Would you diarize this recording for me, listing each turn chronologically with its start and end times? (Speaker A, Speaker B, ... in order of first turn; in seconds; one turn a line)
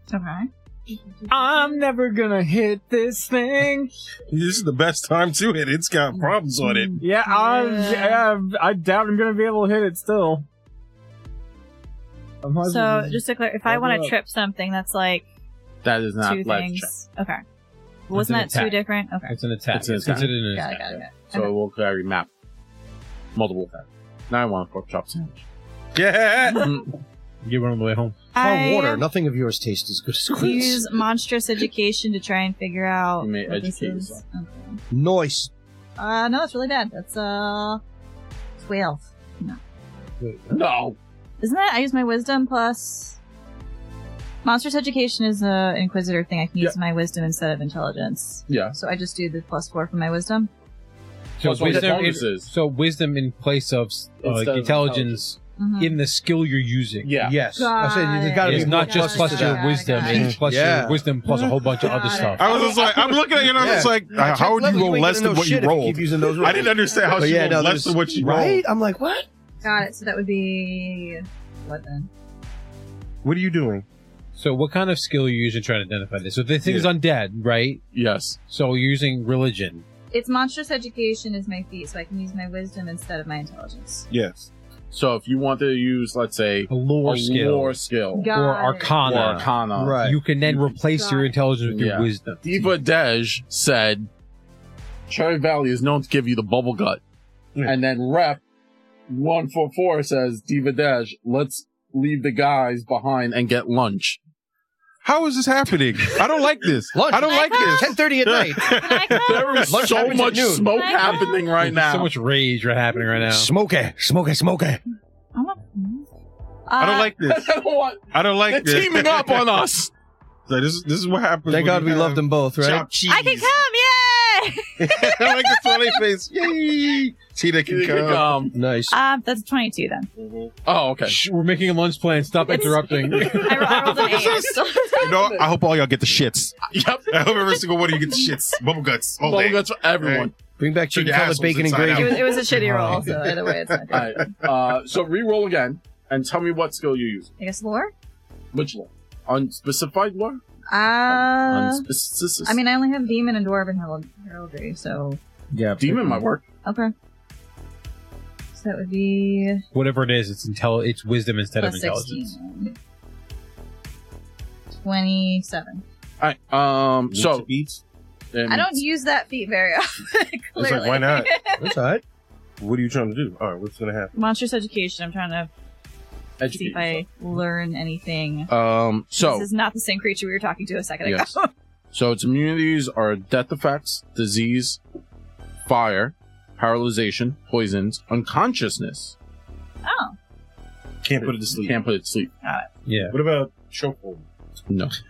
Speaker A: 0.1-1.8
Speaker B: 1.3-3.9
Speaker C: 4.3-7.0
Speaker A: 6.6-8.2
Speaker B: 7.0-10.5
Speaker B: 12.4-14.2
Speaker A: 12.7-15.3
Speaker D: 15.8-16.9
Speaker A: 16.2-17.4
Speaker A: 18.1-19.4
Speaker E: 18.1-20.8
Speaker D: 19.7-22.3
Speaker A: 20.1-21.5
Speaker D: 23.4-25.4
Speaker C: 25.9-26.8
Speaker D: 26.5-26.9
Speaker E: 27.4-28.2
Speaker A: 28.3-29.1
Speaker F: 28.4-31.0
Speaker A: 30.3-34.8
Speaker D: 33.2-34.2
Speaker F: 34.9-35.5
Speaker A: 36.0-37.8
Speaker A: 38.6-39.6
Speaker F: 40.2-40.5
Speaker D: 40.5-41.0
Speaker A: 41.4-43.2
Speaker A: 44.4-50.5
Speaker D: 48.5-48.8
Speaker E: 51.4-57.2
Speaker D: 51.4-52.5
Speaker F: 51.7-52.0
Speaker D: 54.2-55.2
Speaker A: 55.6-56.0
Speaker D: 57.0-57.4
Speaker F: 57.2-61.1
Speaker A: 57.5-60.3
Speaker E: 58.4-62.6
Speaker C: 60.1-60.4
Speaker C: 61.3-61.7
Speaker A: 61.8-63.6
Speaker C: 62.4-68.6
Speaker F: 63.5-69.3
Speaker A: 69.6-72.1
Speaker C: 73.2-73.8
Speaker E: 74.4-77.8
Speaker C: 76.6-76.9
Speaker D: 77.9-78.4
Speaker E: 78.5-79.8
Speaker A: 80.1-84.1
Speaker C: 84.1-84.5
Speaker D: 84.9-88.3
Speaker E: 86.7-92.7
Speaker A: 88.2-89.2
Speaker D: 89.0-90.7
Speaker F: 89.8-90.2
Speaker A: 90.9-91.3
Speaker D: 91.7-94.1
Speaker D: 95.1-97.0
Speaker D: 97.6-98.4
Speaker D: 99.1-104.2
Speaker C: 105.0-110.0
Speaker F: 106.9-108.8
Speaker A: 107.2-108.0
Speaker A: 108.6-111.5
Speaker D: 109.2-112.1
Speaker F: 109.7-110.8
Speaker E: 111.6-113.5
Speaker F: 113.2-114.8
Speaker A: 115.3-116.1
Speaker A: 116.7-117.1
Speaker C: 116.8-117.5
Speaker D: 117.2-119.9
Speaker C: 118.1-119.5
Speaker C: 120.5-123.5
Speaker F: 121.5-122.9
Speaker A: 123.1-126.0
Speaker C: 124.8-128.4
Speaker D: 127.7-128.6
Speaker F: 128.5-129.0
Speaker A: 128.9-130.1
Speaker C: 130.2-130.5
Speaker D: 130.7-131.2
Speaker E: 131.1-134.1
Speaker A: 132.5-135.3
Speaker D: 133.1-134.3
Speaker C: 133.9-136.6
Speaker D: 135.1-135.4
Speaker D: 136.7-137.4
Speaker C: 137.1-140.3
Speaker D: 139.2-140.3
Speaker F: 140.6-142.4
Speaker C: 140.9-144.5
Speaker A: 141.9-144.3
Speaker D: 143.9-147.3
Speaker A: 147.4-147.9
Speaker D: 148.5-150.4
Speaker A: 150.7-151.8
Speaker D: 151.1-152.6
Speaker A: 152.4-155.2
Speaker B: 155.5-156.3
Speaker D: 155.8-156.4
Speaker A: 156.7-156.9
Speaker A: 158.5-159.6
Speaker E: 159.7-162.3
Speaker A: 161.6-162.8
Speaker A: 164.8-165.8
Speaker D: 166.2-167.5
Speaker C: 167.1-167.8
Speaker D: 168.3-168.8
Speaker A: 168.5-171.8
Speaker C: 170.6-171.3
Speaker F: 171.6-172.0
Speaker C: 172.6-174.2
Speaker A: 174.2-175.5
Speaker D: 176.4-177.1
Speaker A: 176.5-178.5
Speaker D: 178.5-179.5
Speaker A: 179.2-181.5
Speaker D: 181.1-181.3
Speaker D: 181.9-184.8
Speaker D: 185.7-189.2
Speaker A: 189.8-190.2
Speaker C: 191.0-191.8
Speaker D: 191.2-192.3
Speaker A: 192.4-192.7
Speaker E: 192.9-193.2
Speaker C: 193.1-194.3
Speaker D: 194.7-194.9